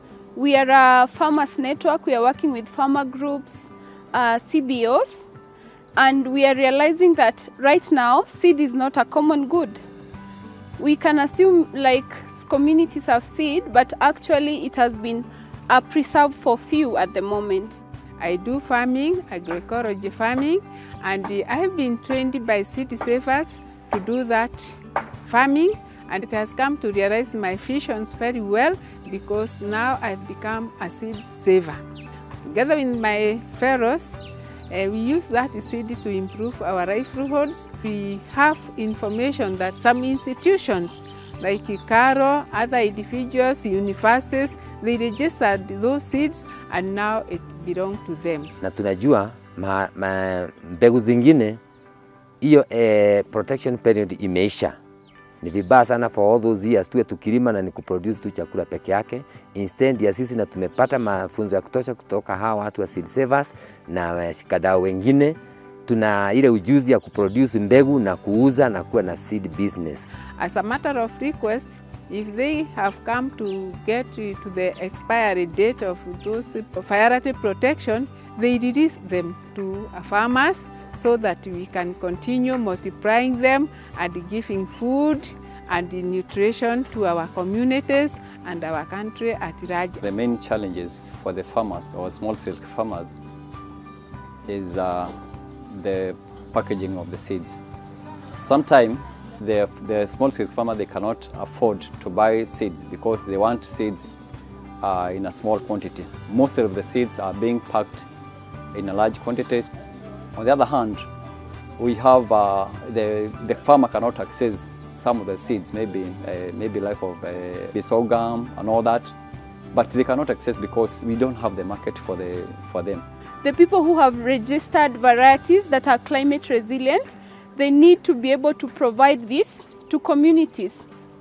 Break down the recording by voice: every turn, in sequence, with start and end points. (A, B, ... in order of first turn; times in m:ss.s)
0:00.3-0:05.2 A
0:06.0-0:09.8 A
0:10.8-0:17.8 A
0:18.2-0:31.8 B
0:32.4-0:48.5 B
0:48.6-0:51.6 C
0:52.4-0:54.8 C
0:55.4-1:10.1 C
1:10.4-1:30.0 B
1:30.0-1:33.1 D
1:34.5-1:35.1 D
1:35.7-1:37.6 D
1:38.4-1:44.1 D
1:44.8-1:48.1 D
1:48.7-1:49.7 D
1:50.3-1:51.1 D
1:51.8-1:59.1 D
1:59.7-2:03.0 D
2:03.4-2:10.8 A